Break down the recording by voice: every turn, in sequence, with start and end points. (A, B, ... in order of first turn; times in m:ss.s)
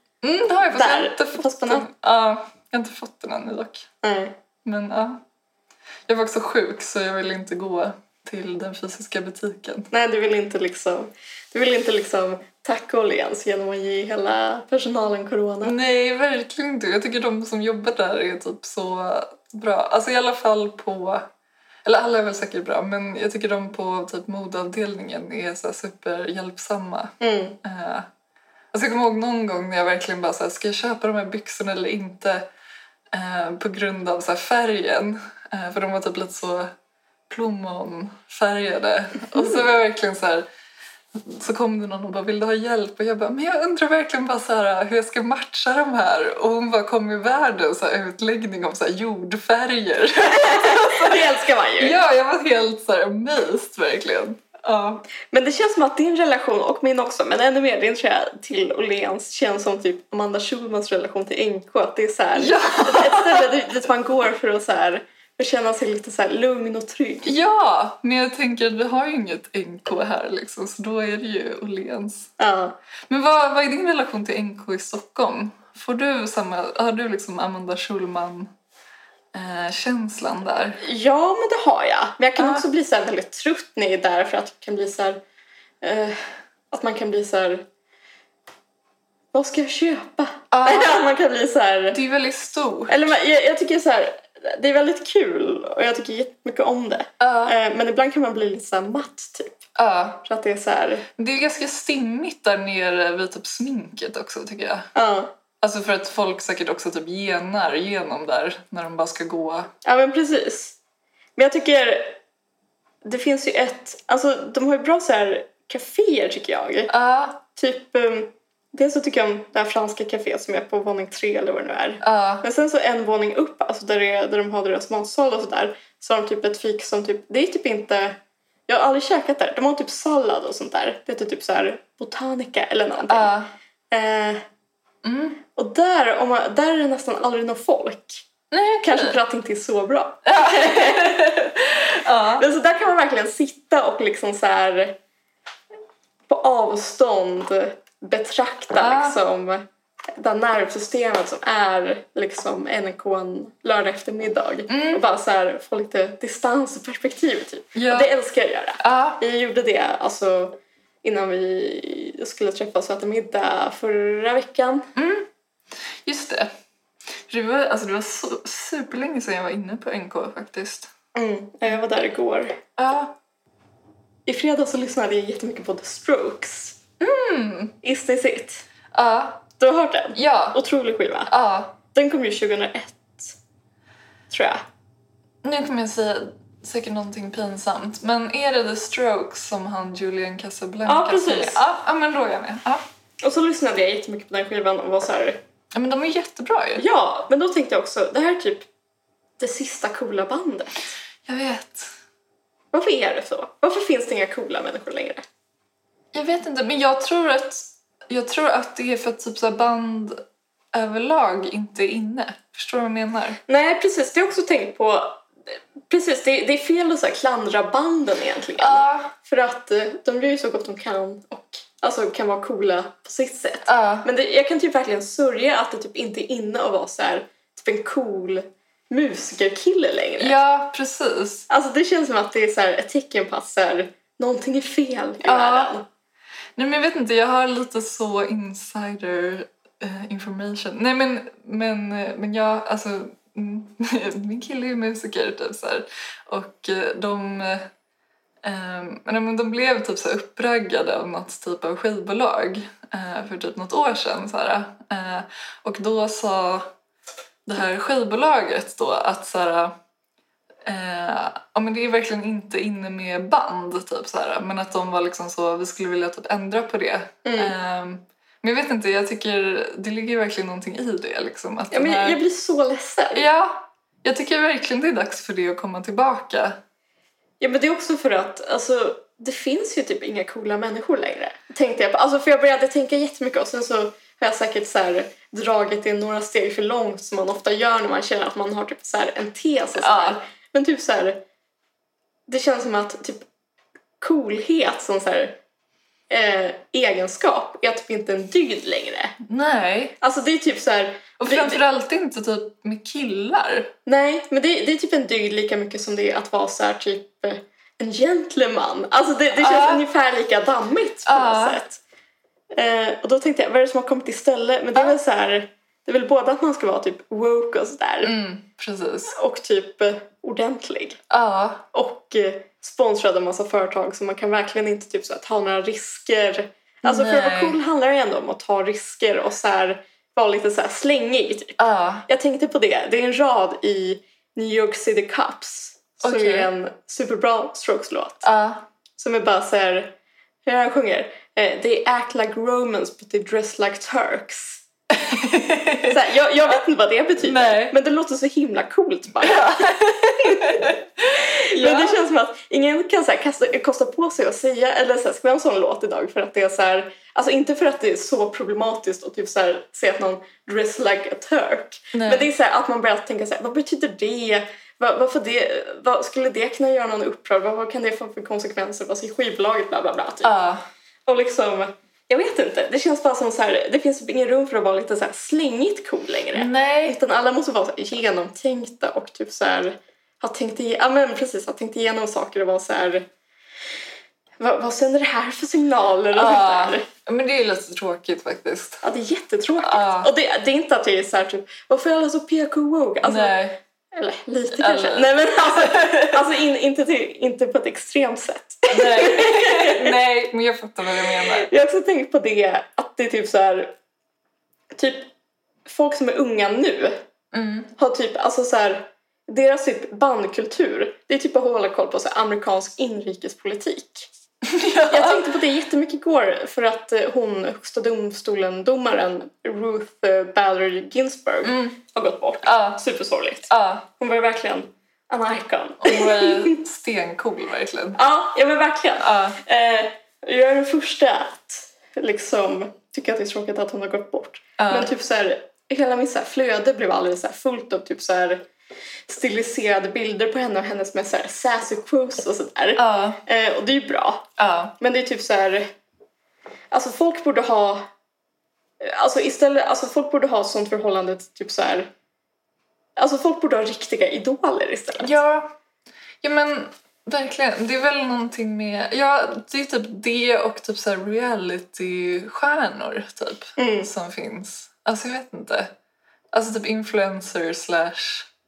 0:00.2-0:03.9 A
0:00.7-0:01.9 B
0:04.0-0:04.4 B
0:04.6-0:05.2 A
0:06.1-0:09.9 A
0:09.9-0:15.8 B
0:15.6-0:21.3 A
0:21.8-0:28.1 A
0:27.2-0:27.6 B
0:28.7-0:32.5 A
0:33.1-0:36.7 A
0:37.3-0:40.5 A
0:41.1-0:51.2 A
0:50.3-0:52.0 B
0:51.8-0:55.0 A
0:55.3-1:07.3 B
1:02.4-1:03.5 A
1:07.2-1:12.3 A
1:12.4-1:12.8 B
1:13.1-1:18.5 A
1:19.3-1:20.8 A
1:20.8-1:25.2 B
1:22.4-1:22.6 A
1:25.8-1:26.2 B
1:26.7-1:27.7 B
1:29.3-1:32.0 B
1:30.5-1:31.0 A
1:31.9-1:33.2 A
1:32.9-1:39.6 B
1:37.2-1:37.6 A
1:39.8-1:40.2 A
1:40.2-1:41.1 B
1:41.2-1:44.9 A
1:45.0-1:45.3 B
1:45.6-1:49.7 A
1:49.8-1:50.8 B
1:51.4-1:52.2 B
1:53.0-1:56.9 B
1:56.9-1:57.4 A
1:57.5-2:13.3 B
2:02.0-2:02.4 A
2:13.1-2:13.5 A
2:13.9-2:14.4 B
2:15.0-2:15.4 A
2:15.6-2:18.3 B
2:18.5-2:19.2 A
2:18.8-2:21.3 B
2:20.2-2:22.5 A
2:22.4-2:25.0 B
2:26.3-2:29.6 B
2:28.8-2:29.2 A
2:30.2-2:44.9 B
2:34.7-2:35.0 A
2:37.8-2:38.1 A
2:38.8-2:39.2 A
2:45.0-2:45.3 A
2:46.0-2:46.5 A
2:47.3-2:50.9 A
2:51.2-2:52.6 B
2:52.8-2:53.2 A
2:54.3-2:56.8 B
2:57.0-2:57.8 A
2:57.8-2:58.7 B
2:58.9-2:59.4 A
2:59.6-3:01.3 B
3:00.2-3:00.6 A
3:01.3-3:01.8 A
3:01.9-3:03.4 B
3:04.3-3:04.6 B
3:05.4-3:12.8 A
3:10.9-3:11.6 B
3:13.2-3:15.4 B
3:15.7-3:16.8 A
3:16.8-3:18.7 B
3:19.4-3:20.9 B
3:21.3-3:21.9 A
3:22.7-3:25.2 B
3:26.1-3:30.2 A
3:30.7-3:33.4 A
3:33.5-3:35.3 B
3:35.9-3:50.4 B
3:38.6-3:39.1 A
3:43.7-3:44.1 A
3:50.2-3:51.5 A
3:51.5-3:55.9 B
3:55.2-3:55.7 A
3:56.6-4:07.7 A
4:08.4-4:16.7 A
4:17.5-4:19.8 A
4:20.6-4:32.2 A
4:27.2-4:27.5 B
4:31.7-4:33.2 B
4:33.1-4:36.6 A
4:37.4-4:51.2 B
4:49.8-4:50.2 A
4:52.3-4:53.3 B
4:54.0-4:55.4 B
4:56.1-4:59.2 B
4:59.2-5:00.0 A
5:00.0-5:01.6 B
5:01.2-5:03.7 A
5:03.9-5:11.8 B
5:09.4-5:09.8 A
5:11.1-5:11.6 A
5:12.5-5:18.1 B
5:18.0-5:19.2 A
5:19.1-5:21.0 B
5:21.1-5:21.6 A
5:21.7-5:38.3 B
5:26.8-5:27.6 A
5:31.6-5:32.0 A
5:36.0-5:36.5 A
5:38.2-5:38.6 A
5:39.0-5:44.6 B
5:45.0-5:46.0 A
5:45.8-6:10.3 B
5:47.2-5:47.8 A
5:49.2-5:52.0 A
6:01.9-6:02.3 A
6:10.2-6:10.7 A
6:11.1-6:23.1 B
6:16.3-6:17.0 A
6:24.4-6:26.9 B
6:26.1-6:28.8 A
6:28.8-6:39.9 B
6:29.6-6:30.1 A
6:33.0-6:33.6 A
6:34.5-6:36.2 A
6:38.7-6:41.5 A
6:41.0-6:43.8 B
6:44.7-6:45.1 B
6:45.7-6:47.0 B
6:47.3-6:47.7 A
6:47.8-6:54.1 B
6:54.4-6:55.3 A
6:54.9-7:06.6 B
7:01.4-7:01.8 A
7:02.4-7:02.8 A
7:03.5-7:03.8 A
7:05.8-7:08.0 A
7:08.0-7:18.4 B
7:09.0-7:09.4 A
7:14.6-7:14.9 A
7:19.1-7:24.3 B
7:22.8-7:23.2 A
7:24.4-7:24.8 A
7:24.8-7:25.7 B
7:26.7-7:27.9 B
7:28.8-7:31.9 B
7:33.0-7:35.2 B
7:35.0-7:35.5 A
7:36.2-7:45.7 A
7:43.6-7:43.9 B
7:46.3-7:48.3 A